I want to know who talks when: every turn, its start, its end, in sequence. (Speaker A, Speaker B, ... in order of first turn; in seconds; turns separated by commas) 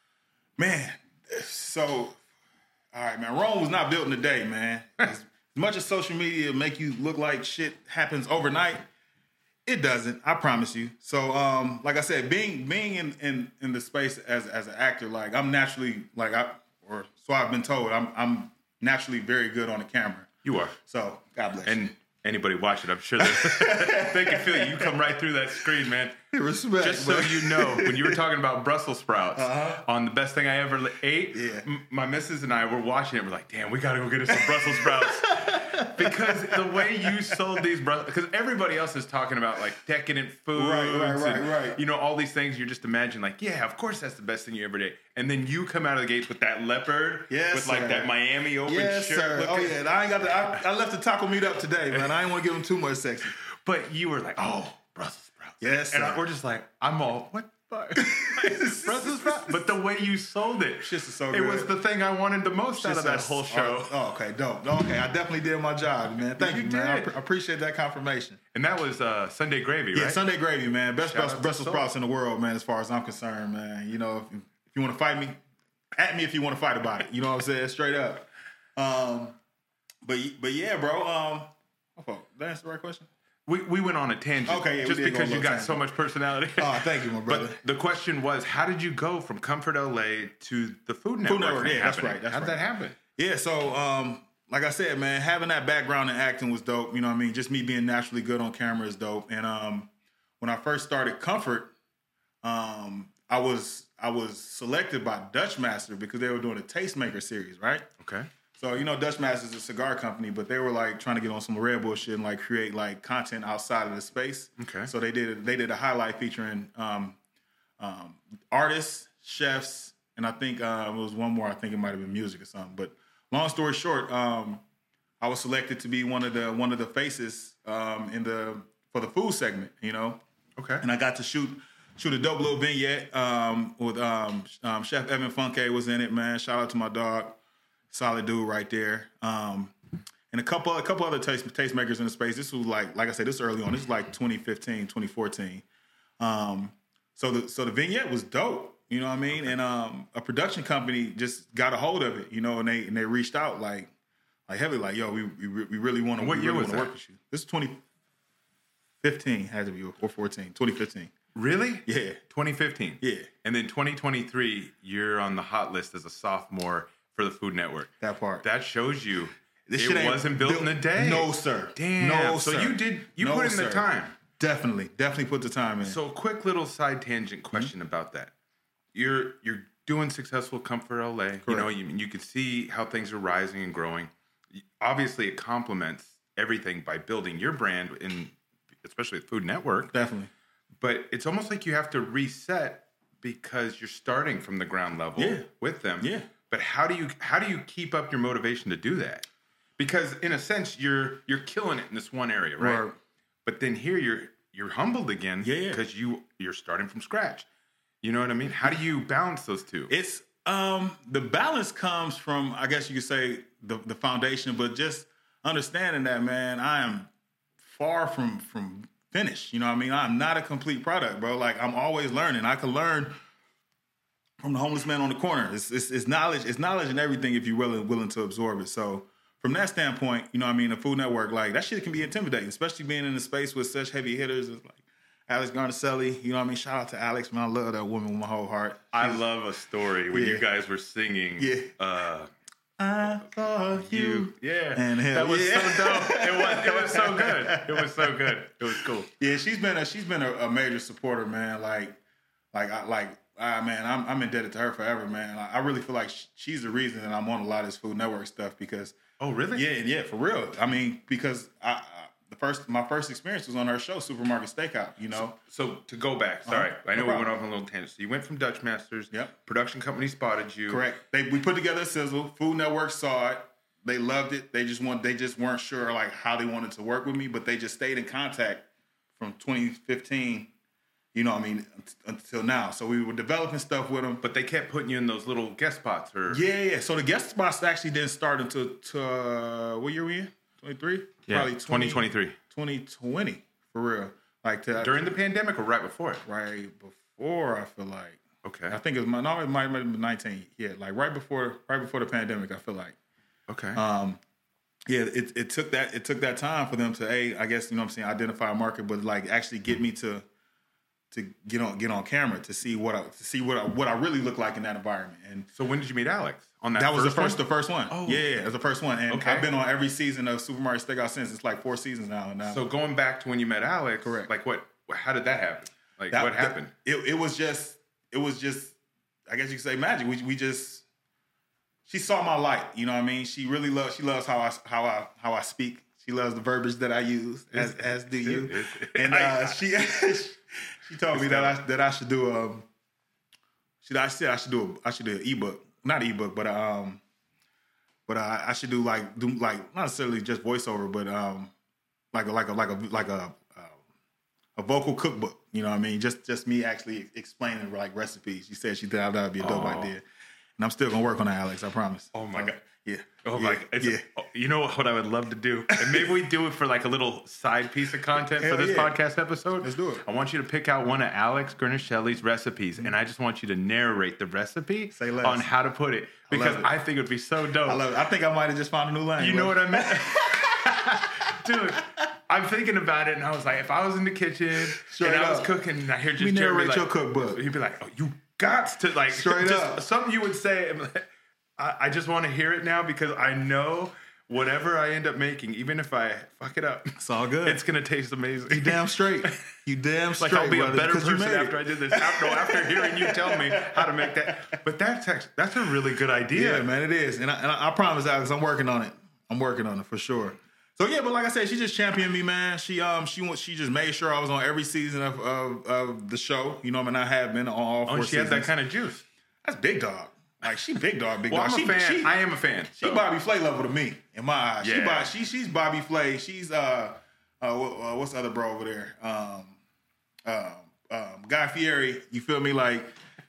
Speaker A: 0.6-2.2, Speaker A: 2.9-8.8, Speaker A: 9.7-20.3, Speaker B: 20.4-20.8, Speaker A: 20.9-21.9, Speaker B: 21.6-26.1, Speaker A: 23.2-24.9, Speaker A: 26.3-28.2, Speaker B: 26.8-50.6, Speaker A: 29.3-29.9, Speaker A: 31.3-31.6, Speaker A: 34.3-37.3, Speaker A: 40.5-41.8, Speaker A: 47.3-48.1, Speaker A: 48.6-53.4, Speaker B: 53.4-64.0, Speaker A: 55.6-56.2, Speaker A: 58.0-59.6, Speaker A: 60.8-61.7, Speaker A: 62.8-68.4, Speaker B: 66.2-67.1, Speaker B: 68.5-70.2, Speaker A: 69.9-75.4, Speaker B: 71.0-71.9, Speaker A: 76.0-79.4, Speaker A: 80.0-83.1, Speaker B: 83.5-93.0, Speaker A: 84.5-85.8, Speaker A: 86.6-87.6, Speaker A: 91.2-92.6, Speaker A: 93.2-101.7, Speaker A: 102.4-107.8, Speaker B: 108.0-108.3, Speaker A: 108.6-117.2, Speaker B: 114.6-114.9, Speaker A: 117.8-124.6, Speaker A: 125.2-130.2, Speaker B: 130.6-130.8, Speaker A: 130.8-137.4, Speaker A: 137.9-139.7, Speaker A: 140.3-145.6, Speaker A: 146.2-153.9, Speaker A: 154.5-157.8, Speaker B: 156.2-156.9, Speaker A: 159.0-161.1, Speaker B: 161.3-167.9, Speaker A: 161.8-162.2, Speaker A: 163.0-163.3, Speaker A: 168.0-168.4, Speaker B: 168.4-174.2, Speaker A: 169.7-176.0, Speaker B: 175.8-178.3, Speaker B: 178.9-189.9, Speaker A: 181.4-181.7, Speaker A: 189.9-190.3, Speaker B: 190.8-199.2, Speaker A: 195.2-195.4, Speaker A: 196.0-196.3, Speaker B: 199.8-202.8, Speaker A: 202.6-202.9, Speaker B: 203.4-207.5, Speaker A: 205.4-205.8, Speaker B: 208.0-209.9, Speaker A: 209.9-217.1, Speaker A: 217.6-223.2, Speaker A: 224.4-239.2, Speaker B: 238.9-242.3, Speaker A: 240.1-240.4, Speaker A: 241.4-241.7, Speaker A: 242.8-248.2, Speaker B: 243.7-249.1, Speaker A: 249.2-252.0, Speaker A: 252.5-258.9, Speaker B: 259.2-259.6, Speaker A: 259.5-265.4, Speaker B: 265.1-270.8, Speaker A: 266.4-267.3, Speaker A: 270.7-280.5, Speaker A: 281.1-284.2, Speaker B: 284.2-286.4, Speaker A: 286.3-295.1, Speaker B: 291.2-292.4, Speaker B: 294.8-296.2, Speaker A: 296.2-303.0, Speaker B: 298.4-298.8, Speaker B: 303.5-303.8, Speaker A: 303.7-304.2, Speaker A: 304.9-310.2, Speaker A: 311.1-315.5, Speaker B: 315.5-318.3, Speaker A: 316.7-322.6, Speaker B: 319.1-319.5, Speaker B: 322.4-326.7, Speaker A: 324.0-324.3, Speaker A: 326.1-328.7, Speaker A: 329.3-330.8, Speaker A: 331.9-342.6, Speaker B: 337.5-339.6, Speaker B: 341.1-341.6, Speaker A: 343.8-347.0, Speaker A: 348.1-351.5, Speaker A: 352.1-353.8, Speaker A: 354.6-360.0, Speaker B: 359.4-359.9, Speaker A: 360.6-364.0, Speaker B: 362.1-362.6, Speaker B: 363.2-377.8, Speaker A: 365.8-366.1, Speaker A: 368.3-368.9, Speaker A: 369.6-370.0, Speaker A: 374.9-375.5, Speaker A: 376.3-376.7, Speaker A: 377.6-381.0, Speaker B: 379.2-399.4, Speaker A: 384.8-385.6, Speaker A: 386.2-387.4, Speaker A: 389.1-389.8, Speaker A: 397.0-397.6, Speaker A: 398.5-404.1, Speaker B: 400.2-406.7, Speaker A: 406.3-418.5, Speaker B: 417.9-419.0, Speaker A: 419.4-422.2, Speaker B: 421.3-423.1, Speaker A: 422.8-429.6, Speaker B: 424.6-425.1, Speaker A: 430.2-432.9